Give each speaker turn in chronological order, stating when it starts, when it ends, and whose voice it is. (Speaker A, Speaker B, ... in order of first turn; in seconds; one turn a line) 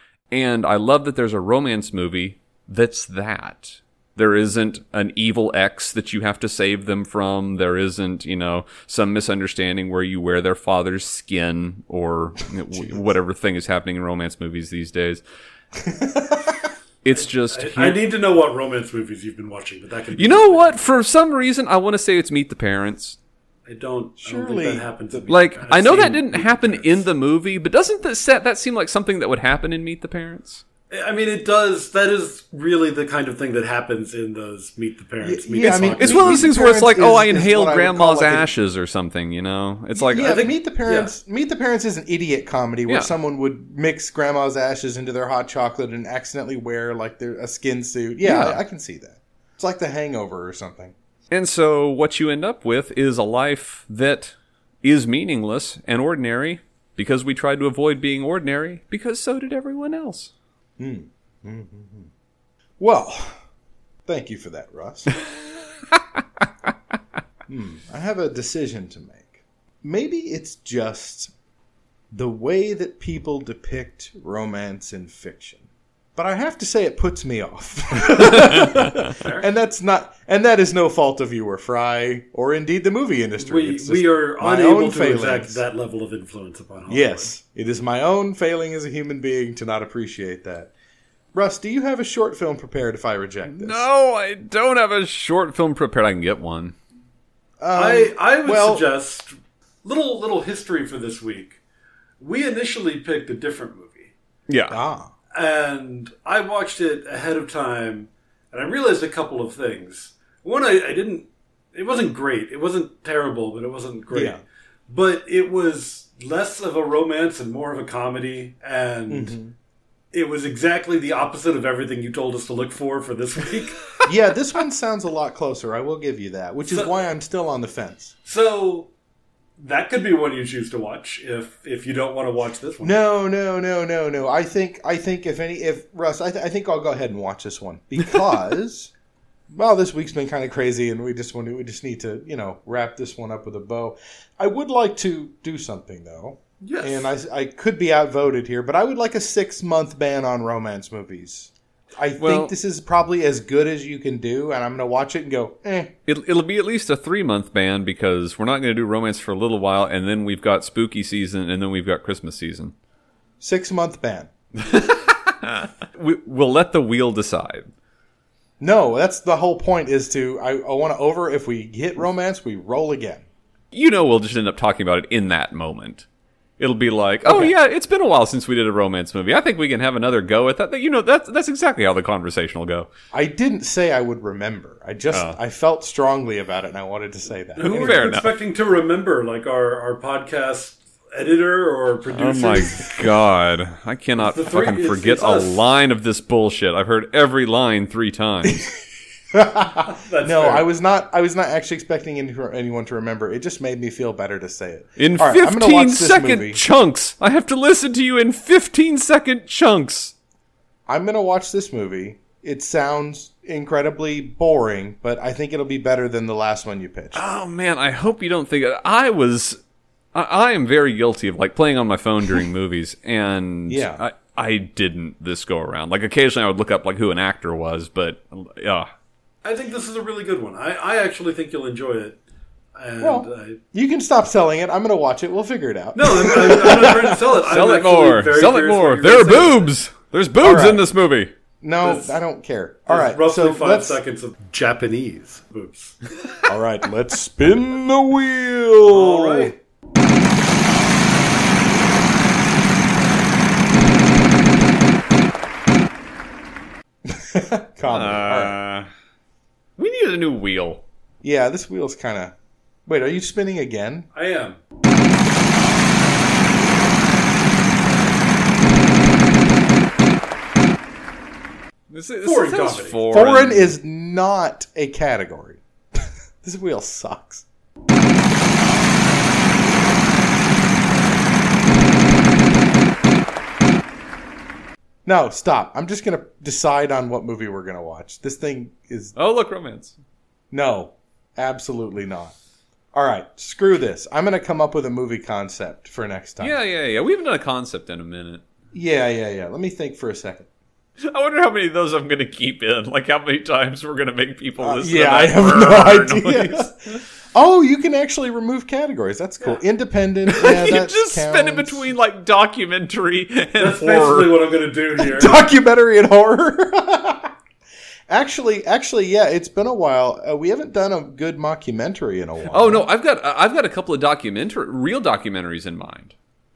Speaker A: 0.3-15.2
Speaker B: 15.8-16.6
Speaker A: 17.0-18.0
Speaker C: 17.1-20.7
Speaker A: 20.1-23.2
Speaker C: 23.7-26.4
Speaker B: 24.2-25.3
Speaker A: 25.3-30.6
Speaker B: 26.3-26.8
Speaker C: 30.9-36.5
Speaker B: 35.2-38.5
Speaker A: 35.6-40.5
Speaker B: 40.0-50.9
Speaker C: 40.2-41.1
Speaker A: 42.9-43.1
Speaker A: 48.2-48.6
Speaker A: 51.3-60.3
Speaker B: 60.8-62.1
Speaker B: 62.8-63.4
Speaker B: 64.0-65.2
Speaker B: 67.5-71.3
Speaker B: 72.1-85.6
Speaker C: 79.1-79.5
Speaker C: 83.4-87.3
Speaker B: 86.9-90.7
Speaker B: 91.3-93.8
Speaker A: 93.5-96.7
Speaker B: 97.6-98.8
Speaker C: 97.7-101.6
Speaker C: 102.2-104.1
Speaker A: 104.5-104.8
Speaker B: 104.7-105.1
Speaker C: 105.3-119.4
Speaker B: 114.1-114.4
Speaker B: 119.1-119.5
Speaker C: 120.1-123.8
Speaker B: 124.0-128.1
Speaker C: 126.7-126.9
Speaker C: 128.2-128.9
Speaker C: 129.6-132.9
Speaker B: 132.8-138.9
Speaker B: 139.5-155.9
Speaker C: 146.6-147.1
Speaker A: 152.2-152.5
Speaker A: 156.1-162.7
Speaker B: 163.4-164.3
Speaker A: 164.6-167.7
Speaker B: 168.6-173.2
Speaker A: 173.7-176.1
Speaker A: 176.6-182.9
Speaker B: 177.2-177.5
Speaker B: 183.1-188.1
Speaker A: 185.1-185.4
Speaker C: 187.6-193.0
Speaker A: 187.6-188.3
Speaker A: 192.1-198.6
Speaker C: 194.2-195.6
Speaker B: 199.3-206.6
Speaker C: 199.8-200.7
Speaker A: 205.0-210.1
Speaker B: 210.9-217.2
Speaker A: 217.1-219.6
Speaker A: 220.1-228.9
Speaker B: 223.7-224.0
Speaker C: 229.4-232.2
Speaker C: 232.8-233.6
Speaker B: 233.0-237.2
Speaker C: 235.9-239.7
Speaker A: 237.4-241.3
Speaker B: 240.4-240.8
Speaker B: 241.6-244.0
Speaker C: 241.8-242.1
Speaker C: 242.9-246.0
Speaker B: 246.4-249.5
Speaker C: 248.8-249.6
Speaker B: 257.1-258.5
Speaker A: 257.9-258.9
Speaker A: 259.8-260.8
Speaker B: 261.2-262.3
Speaker B: 262.9-264.1
Speaker C: 264.1-264.6
Speaker A: 271.9-273.7
Speaker C: 272.2-273.0
Speaker B: 273.1-277.4
Speaker B: 285.0-289.1
Speaker A: 289.1-289.9
Speaker B: 290.5-292.3
Speaker B: 292.9-296.6
Speaker A: 296.4-298.4
Speaker B: 298.7-300.5
Speaker A: 301.0-307.0
Speaker B: 304.6-311.9
Speaker A: 310.3-314.4
Speaker C: 313.6-315.4
Speaker B: 315.0-317.3
Speaker B: 318.1-322.9
Speaker A: 322.5-326.1